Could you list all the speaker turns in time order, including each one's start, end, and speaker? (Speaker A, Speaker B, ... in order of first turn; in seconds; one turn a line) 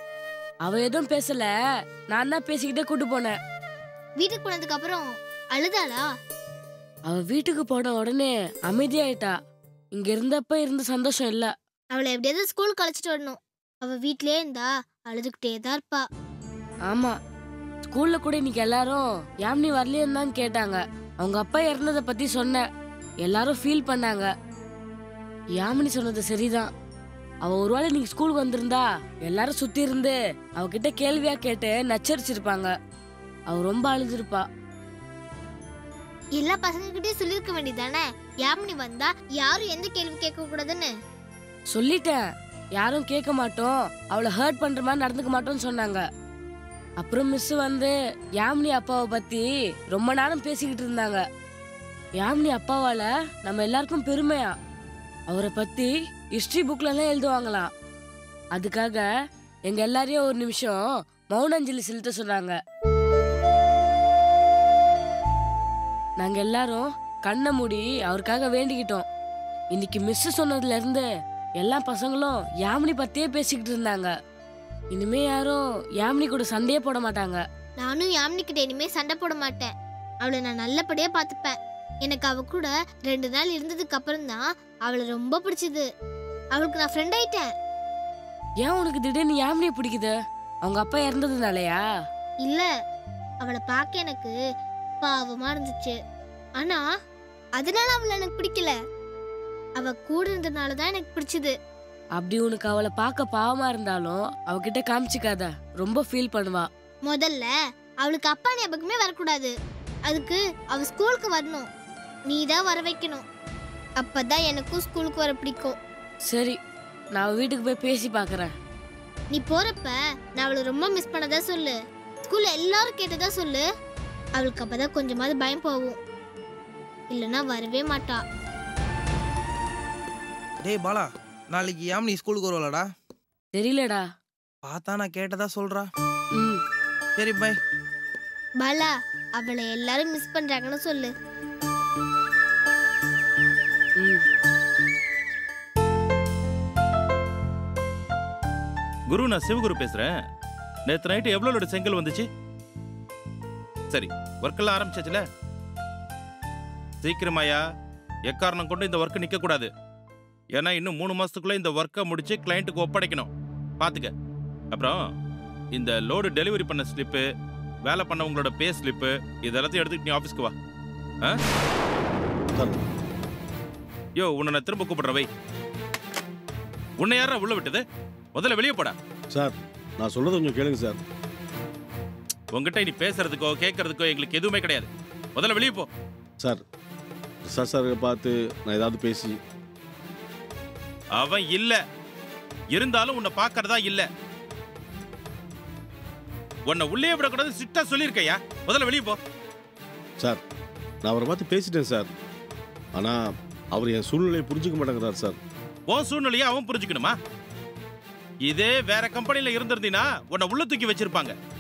Speaker A: 0.7-1.5
Speaker A: 2.1-3.3
Speaker B: 4.2-5.0
Speaker B: 5.6-6.0
Speaker A: 7.1-9.3
Speaker A: 9.9-11.5
Speaker B: 11.9-16.0
Speaker A: 16.9-17.1
Speaker A: 17.9-22.6
Speaker A: 23.2-24.3
Speaker A: 25.6-26.7
Speaker A: 27.4-32.7
Speaker A: 33.5-34.4
Speaker B: 36.4-40.9
Speaker A: 41.7-46.0
Speaker A: 47.0-51.2
Speaker A: 52.2-54.5
Speaker A: 55.3-57.7
Speaker A: 58.6-59.1
Speaker A: 59.7-62.6
Speaker A: 66.2-69.0
Speaker A: 69.7-71.1
Speaker A: 71.6-74.1
Speaker A: 74.9-77.4
Speaker B: 77.8-79.7
Speaker B: 80.2-84.4
Speaker B: 84.9-85.8
Speaker B: 86.6-87.5
Speaker A: 88.6-90.1
Speaker A: 90.7-91.8
Speaker B: 93.4-94.3
Speaker B: 95.0-95.9
Speaker B: 97.6-98.7
Speaker B: 99.8-101.5
Speaker A: 102.2-106.7
Speaker B: 107.1-107.5
Speaker B: 108.1-109.5
Speaker B: 110.1-111.7
Speaker B: 112.3-113.2
Speaker B: 114.0-115.8
Speaker A: 116.3-116.6
Speaker A: 117.2-118.5
Speaker B: 119.3-121.7
Speaker B: 122.3-123.6
Speaker B: 124.4-126.0
Speaker B: 127.1-128.2
Speaker C: 130.6-132.9
Speaker A: 133.6-134.0
Speaker C: 134.6-135.9
Speaker C: 137.2-137.6
Speaker B: 139.4-141.1
Speaker D: 149.1-150.1
Speaker D: 150.9-152.2
Speaker D: 153.9-155.2
Speaker D: 157.0-157.6
Speaker D: 158.3-159.7
Speaker D: 160.6-164.1
Speaker D: 164.7-165.0
Speaker D: 165.7-167.2
Speaker D: 167.9-170.5
Speaker E: 172.6-172.8
Speaker D: 174.2-175.3
Speaker D: 177.0-177.8
Speaker D: 178.3-179.0
Speaker E: 179.3-181.0
Speaker D: 182.5-185.9
Speaker E: 187.5-189.4
Speaker D: 191.2-191.8
Speaker D: 192.7-194.1
Speaker D: 196.7-199.2
Speaker E: 201.0-202.1
Speaker E: 203.0-205.4
Speaker D: 205.9-207.2
Speaker D: 208.5-211.3